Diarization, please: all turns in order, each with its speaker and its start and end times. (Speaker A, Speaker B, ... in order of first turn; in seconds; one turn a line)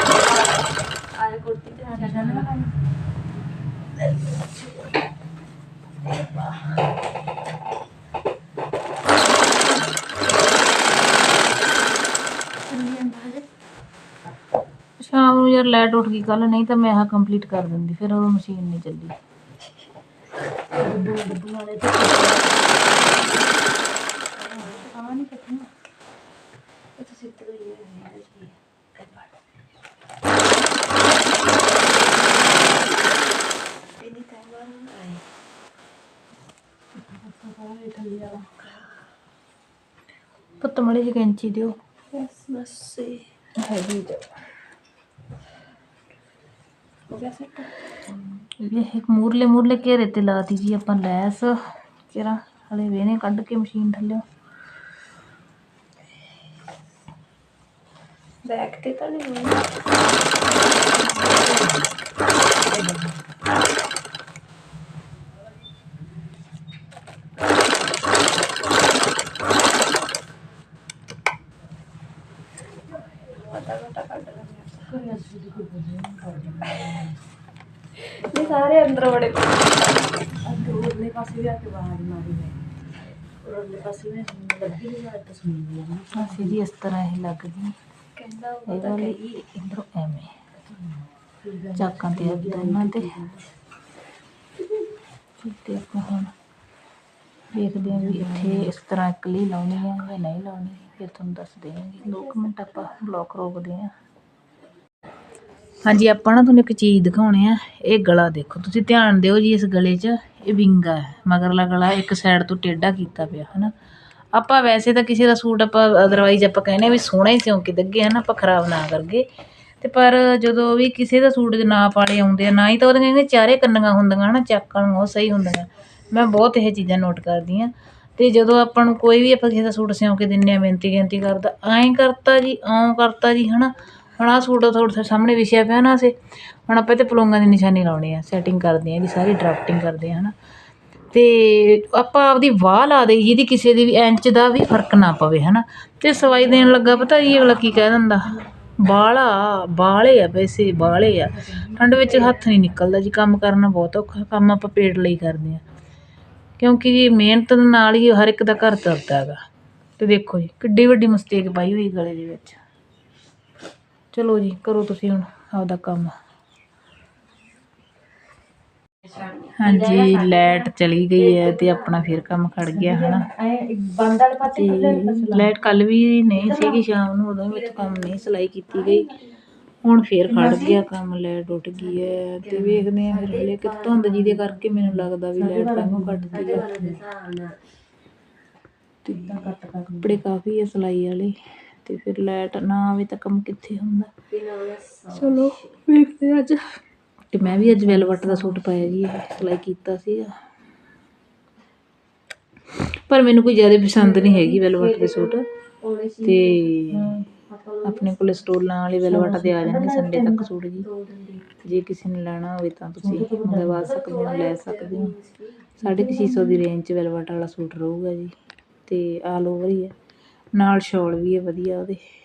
Speaker A: 0.2-2.5
Speaker B: 1.8-2.8
Speaker B: 12.7-13.4
Speaker C: 15.0-19.1
Speaker B: 20.7-22.6
Speaker B: 24.4-25.7
Speaker A: 24.4-24.9
Speaker A: 26.9-29.3
Speaker A: 33.9-35.2
Speaker B: 36.9-38.5
Speaker A: 38.6-39.0
Speaker C: 40.6-41.7
Speaker A: 42.1-43.3
Speaker C: 43.6-44.3
Speaker A: 47.1-47.7
Speaker C: 48.4-54.2
Speaker A: 58.4-59.7
Speaker B: 61.1-61.9
Speaker B: 62.7-63.3
Speaker A: 73.3-74.9
Speaker B: 74.9-77.2
Speaker A: 78.0-80.2
Speaker B: 78.3-78.6
Speaker B: 80.4-82.6
Speaker B: 83.4-86.6
Speaker C: 86.1-87.7
Speaker A: 88.1-89.2
Speaker C: 88.7-90.3
Speaker B: 90.8-93.5
Speaker C: 91.8-93.1
Speaker C: 95.4-96.3
Speaker C: 97.5-103.9
Speaker B: 97.8-98.7
Speaker C: 105.8-113.7
Speaker C: 114.3-119.3
Speaker C: 119.8-140.3
Speaker C: 141.1-155.6
Speaker B: 151.4-152.0
Speaker C: 156.6-159.4
Speaker C: 160.0-162.6
Speaker C: 164.1-166.1
Speaker C: 169.4-173.3
Speaker A: 169.9-170.4
Speaker A: 171.2-172.1
Speaker B: 172.7-175.5
Speaker C: 174.4-179.1
Speaker B: 176.3-176.8
Speaker A: 177.5-179.4
Speaker C: 179.8-186.6
Speaker B: 180.3-180.8
Speaker A: 181.9-184.6
Speaker B: 184.8-187.0
Speaker A: 186.3-187.6
Speaker C: 189.0-194.1
Speaker B: 189.1-190.2
Speaker A: 194.3-195.7
Speaker C: 195.1-196.8
Speaker C: 197.3-200.3
Speaker B: 197.6-198.9
Speaker C: 202.8-205.4
Speaker A: 203.9-206.7
Speaker C: 206.2-207.2
Speaker B: 206.9-207.2
Speaker A: 207.5-208.4
Speaker C: 207.8-210.9
Speaker B: 209.0-210.5
Speaker A: 210.8-211.5
Speaker C: 211.6-215.1
Speaker B: 213.0-213.9
Speaker A: 213.8-215.7
Speaker C: 215.8-218.3
Speaker B: 215.8-216.6
Speaker C: 218.9-219.9
Speaker C: 220.6-222.0